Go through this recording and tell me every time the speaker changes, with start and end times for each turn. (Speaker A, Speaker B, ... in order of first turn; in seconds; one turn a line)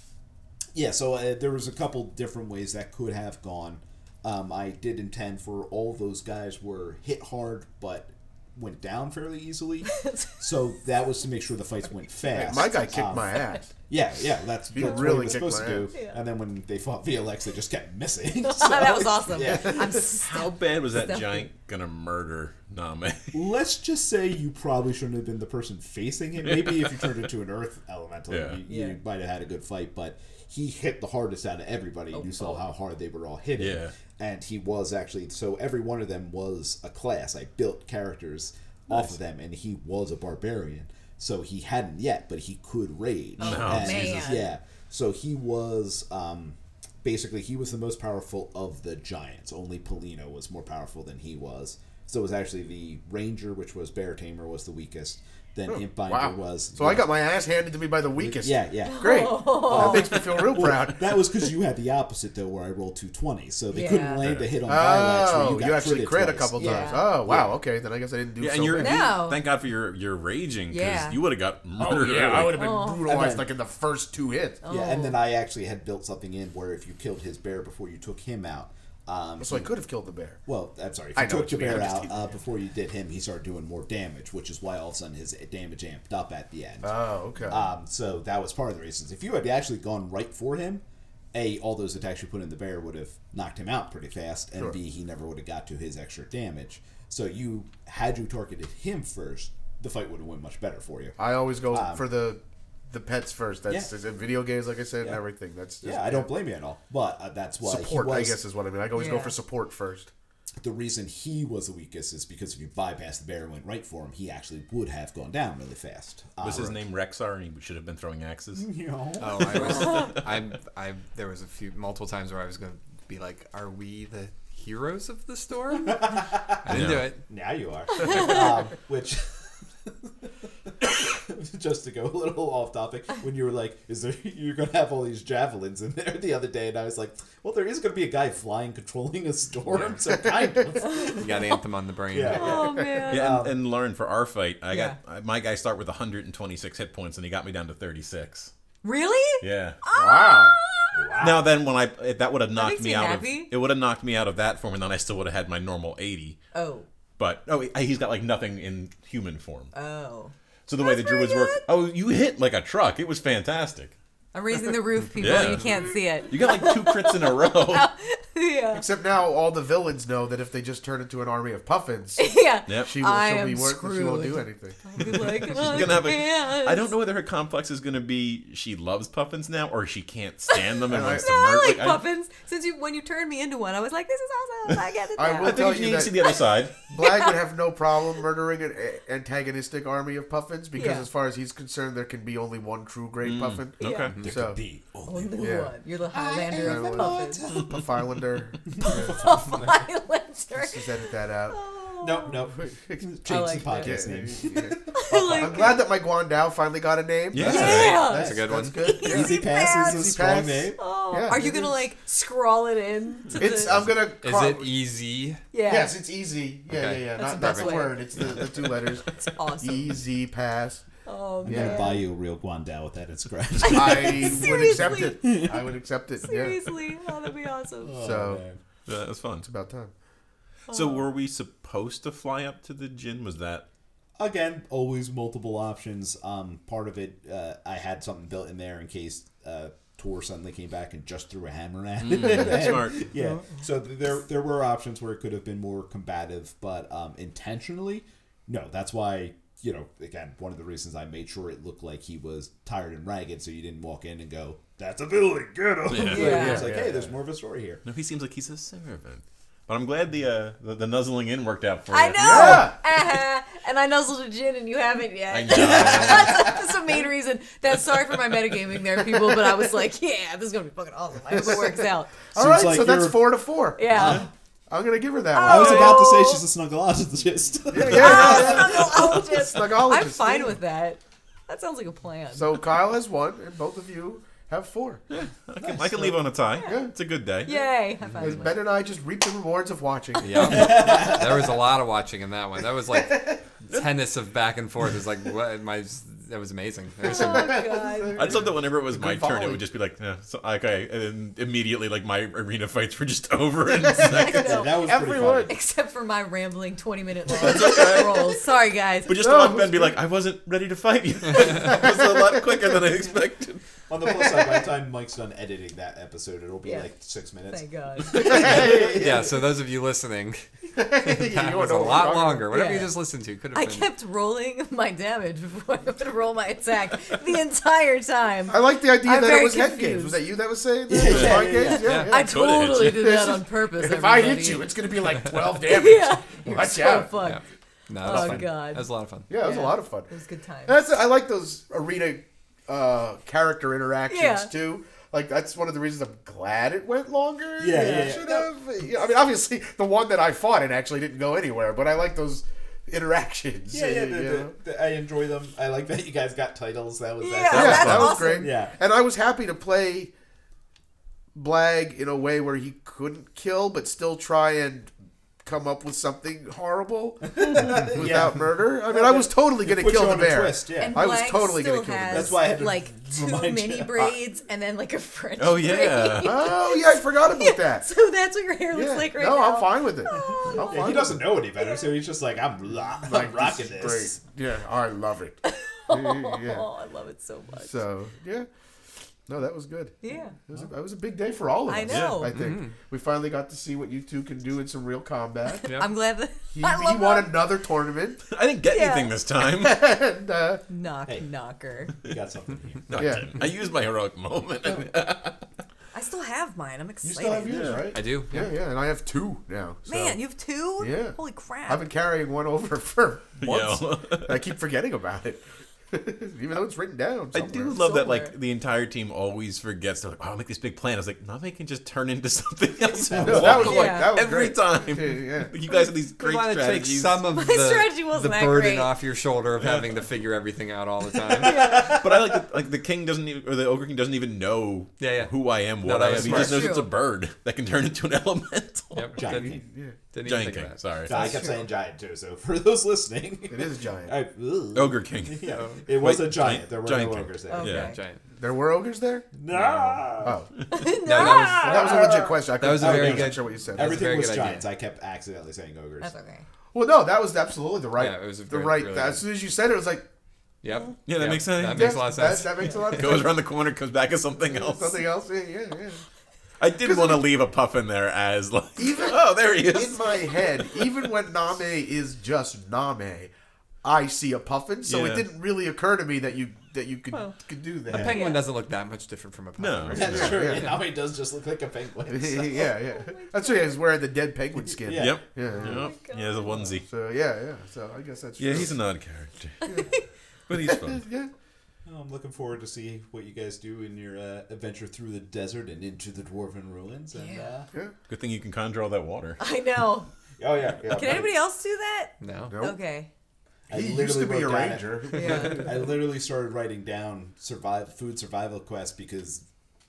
Speaker A: 0.7-20.0
Speaker B: 9.9-10.3
Speaker C: 12.3-13.7
Speaker C: 14.7-15.9
Speaker B: 14.8-15.4
Speaker B: 15.9-16.2
Speaker B: 18.4-21.5
Speaker D: 20.0-23.4
Speaker A: 23.3-57.1
Speaker D: 26.4-27.3
Speaker D: 28.3-28.6
Speaker B: 28.7-29.0
Speaker B: 32.1-32.6
Speaker D: 33.6-33.9
Speaker D: 43.4-44.3
Speaker B: 43.4-44.5
Speaker C: 55.7-61.3
Speaker A: 58.2-67.6
Speaker B: 58.8-60.3
Speaker B: 63.7-64.3
Speaker D: 64.2-64.5
Speaker C: 64.7-69.2
Speaker B: 66.6-67.2
Speaker D: 68.4-72.6
Speaker B: 68.8-69.4
Speaker B: 70.7-71.2
Speaker C: 71.8-74.6
Speaker B: 72.5-73.1
Speaker A: 73.0-73.5
Speaker B: 74.6-75.2
Speaker A: 74.7-79.7
Speaker C: 79.4-80.4
Speaker A: 80.5-86.9
Speaker C: 81.2-82.3
Speaker C: 86.8-87.6
Speaker A: 87.5-101.2
Speaker C: 101.2-106.3
Speaker A: 101.7-102.1
Speaker A: 105.8-108.4
Speaker C: 107.6-110.1
Speaker B: 108.9-109.4
Speaker A: 110.6-116.8
Speaker D: 116.4-118.7
Speaker A: 118.6-119.9
Speaker E: 119.2-127.2
Speaker D: 119.7-120.2
Speaker A: 125.9-130.3
Speaker D: 126.7-127.1
Speaker B: 128.0-128.4
Speaker A: 130.8-141.6
Speaker C: 140.1-140.7
Speaker B: 140.9-141.2
Speaker E: 141.2-142.7
Speaker A: 142.1-143.6
Speaker B: 142.3-143.4
Speaker C: 142.5-143.0
Speaker D: 143.1-148.5
Speaker B: 144.7-145.0
Speaker B: 148.8-151.3
Speaker D: 149.4-149.8
Speaker C: 149.9-150.6
Speaker A: 150.9-151.5
Speaker D: 151.2-156.4
Speaker B: 152.5-153.5
Speaker B: 156.5-156.9
Speaker D: 157.2-159.7
Speaker B: 159.7-161.6
Speaker D: 160.7-164.0
Speaker B: 164.3-168.9
Speaker D: 165.2-167.9
Speaker C: 168.7-175.0
Speaker B: 172.2-176.9
Speaker D: 172.7-172.9
Speaker D: 175.0-182.0
Speaker B: 180.5-186.4
Speaker C: 180.9-181.3
Speaker C: 185.2-186.3
Speaker D: 185.4-186.8
Speaker C: 186.9-194.6
Speaker B: 186.9-187.4
Speaker B: 190.8-191.1
Speaker D: 193.2-194.2
Speaker B: 193.8-194.2
Speaker A: 194.2-197.8
Speaker B: 195.1-197.5
Speaker C: 195.4-195.7
Speaker C: 196.5-199.3
Speaker A: 198.8-199.6
Speaker B: 198.8-202.4
Speaker C: 200.5-201.6
Speaker A: 202.0-205.8
Speaker C: 202.5-211.8
Speaker B: 203.3-204.1
Speaker B: 204.9-205.8
Speaker D: 207.3-208.1
Speaker A: 207.4-210.8
Speaker B: 207.5-210.1
Speaker E: 208.1-208.8
Speaker B: 210.8-213.9
Speaker C: 213.4-214.7
Speaker E: 214.2-215.4
Speaker B: 215.5-216.0
Speaker C: 215.7-220.9
Speaker E: 216.7-218.3
Speaker B: 217.2-220.0
Speaker B: 221.1-222.1
Speaker A: 221.4-225.8
Speaker C: 221.5-221.9
Speaker B: 223.6-225.5
Speaker C: 223.6-226.7
Speaker B: 226.2-228.0
Speaker A: 227.8-228.6
Speaker C: 228.0-228.4
Speaker D: 228.9-229.5
Speaker C: 229.4-229.9
Speaker B: 230.7-231.0
Speaker D: 230.7-233.7
Speaker A: 234.2-257.8
Speaker D: 242.0-243.0
Speaker D: 255.9-256.4
Speaker C: 256.1-257.1
Speaker B: 256.1-256.7
Speaker D: 257.9-262.7
Speaker B: 261.9-272.3
Speaker C: 262.2-262.8
Speaker A: 262.3-262.7
Speaker D: 265.3-266.6
Speaker A: 265.5-266.3
Speaker C: 271.3-274.0
Speaker A: 272.4-274.3
Speaker B: 273.8-274.3
Speaker C: 274.7-276.0
Speaker B: 275.3-276.4
Speaker A: 275.4-279.2
Speaker C: 277.7-280.6
Speaker B: 277.9-282.6
Speaker D: 278.0-278.4
Speaker C: 282.3-285.0
Speaker D: 285.1-287.5
Speaker A: 285.6-286.1
Speaker B: 286.6-286.8
Speaker C: 286.6-286.9
Speaker B: 287.4-288.6
Speaker E: 288.1-288.4
Speaker C: 288.2-290.8
Speaker E: 290.2-297.6
Speaker A: 290.4-291.6
Speaker A: 293.1-293.4
Speaker B: 297.0-298.5
Speaker C: 297.1-298.5
Speaker D: 298.1-304.6
Speaker E: 299.0-299.6
Speaker B: 303.9-309.2
Speaker C: 304.1-305.5
Speaker A: 304.2-305.5
Speaker D: 307.3-308.4
Speaker D: 309.1-313.6
Speaker C: 309.2-310.0
Speaker C: 311.6-311.9
Speaker A: 313.9-319.4
Speaker C: 314.1-314.6
Speaker B: 316.6-316.9
Speaker B: 317.5-318.7
Speaker C: 318.1-319.1
Speaker E: 318.7-323.9
Speaker C: 320.8-322.8
Speaker B: 322.5-322.9
Speaker B: 323.5-330.2
Speaker C: 328.5-332.4
Speaker A: 330.9-332.0
Speaker D: 331.1-331.5
Speaker B: 331.1-334.8
Speaker E: 331.8-332.2
Speaker D: 332.1-333.1
Speaker C: 332.9-337.1
Speaker B: 335.5-337.4
Speaker E: 337.1-339.3
Speaker B: 338.0-340.8
Speaker C: 339.3-340.1
Speaker C: 340.7-354.5
Speaker B: 344.1-344.5
Speaker A: 347.6-348.5
Speaker B: 347.7-348.1
Speaker A: 353.7-358.8
Speaker B: 357.2-358.6
Speaker D: 357.5-358.2
Speaker C: 357.5-360.1
Speaker C: 361.4-364.9
Speaker C: 365.4-372.4
Speaker A: 367.3-371.1
Speaker B: 370.8-380.9
Speaker A: 372.1-374.1
Speaker D: 375.4-376.5
Speaker C: 376.2-377.9
Speaker C: 378.7-381.3
Speaker A: 380.1-384.2
Speaker B: 381.6-381.9
Speaker C: 383.0-386.7
Speaker B: 385.4-387.8
Speaker C: 387.5-388.5
Speaker C: 389.3-395.8
Speaker B: 390.0-390.4
Speaker B: 391.7-392.3
Speaker D: 391.9-392.3
Speaker E: 392.3-392.8
Speaker E: 395.6-395.9
Speaker B: 395.7-397.4
Speaker C: 396.5-398.2
Speaker D: 398.3-399.8
Speaker B: 398.7-399.2
Speaker C: 399.6-400.6
Speaker B: 400.7-402.0
Speaker A: 402.0-403.2
Speaker D: 402.9-405.4
Speaker C: 403.0-403.4
Speaker B: 405.9-407.7
Speaker C: 407.0-410.2
Speaker D: 407.5-407.9
Speaker E: 407.9-408.5
Speaker B: 409.9-411.9
Speaker C: 410.8-417.8
Speaker D: 413.4-414.4
Speaker D: 417.3-427.3
Speaker B: 417.7-418.3
Speaker A: 423.1-423.7
Speaker C: 423.2-425.5
Speaker B: 423.5-424.2
Speaker E: 426.2-431.6
Speaker B: 427.3-429.0
Speaker D: 429.6-429.9
Speaker A: 431.4-432.4
Speaker B: 431.4-431.9
Speaker D: 431.8-439.1
Speaker E: 435.0-436.7
Speaker B: 436.2-436.9
Speaker E: 438.9-440.8
Speaker A: 439.2-439.6
Speaker C: 439.6-440.0
Speaker D: 440.2-441.4
Speaker B: 441.1-441.7
Speaker A: 441.1-447.8
Speaker C: 443.5-444.2
Speaker D: 444.8-448.0
Speaker E: 445.5-445.9
Speaker B: 447.5-448.0
Speaker E: 447.7-448.2
Speaker C: 448.4-449.3
Speaker A: 449.3-450.4
Speaker E: 449.5-450.1
Speaker C: 450.2-450.6
Speaker B: 450.7-452.1
Speaker E: 451.0-452.0
Speaker A: 451.2-456.1
Speaker C: 451.6-454.1
Speaker E: 452.5-454.7
Speaker B: 456.0-456.4
Speaker C: 456.7-460.1
Speaker E: 458.0-459.2
Speaker E: 460.6-463.0
Speaker D: 461.1-465.0
Speaker C: 461.7-463.4
Speaker C: 464.5-466.0
Speaker D: 466.6-470.4
Speaker C: 466.8-467.2
Speaker C: 468.8-473.3
Speaker C: 473.8-478.2
Speaker D: 474.9-475.3
Speaker E: 477.9-480.7
Speaker B: 478.0-478.5
Speaker D: 479.6-480.6
Speaker A: 479.9-482.7
Speaker C: 480.2-480.7
Speaker C: 482.1-485.9
Speaker B: 482.9-483.8
Speaker A: 484.7-485.6
Speaker D: 484.9-486.9
Speaker B: 485.7-486.7
Speaker C: 486.8-488.8
Speaker D: 488.4-489.6
Speaker B: 489.7-490.0
Speaker D: 490.5-491.1
Speaker C: 490.6-491.3
Speaker A: 491.9-497.7
Speaker B: 497.1-497.5
Speaker D: 498.1-499.4
Speaker B: 499.4-500.1
Speaker A: 500.4-501.3
Speaker B: 500.8-503.1
Speaker E: 502.2-502.6
Speaker C: 502.5-502.8
Speaker A: 503.7-509.4
Speaker C: 503.7-505.7
Speaker B: 505.1-505.7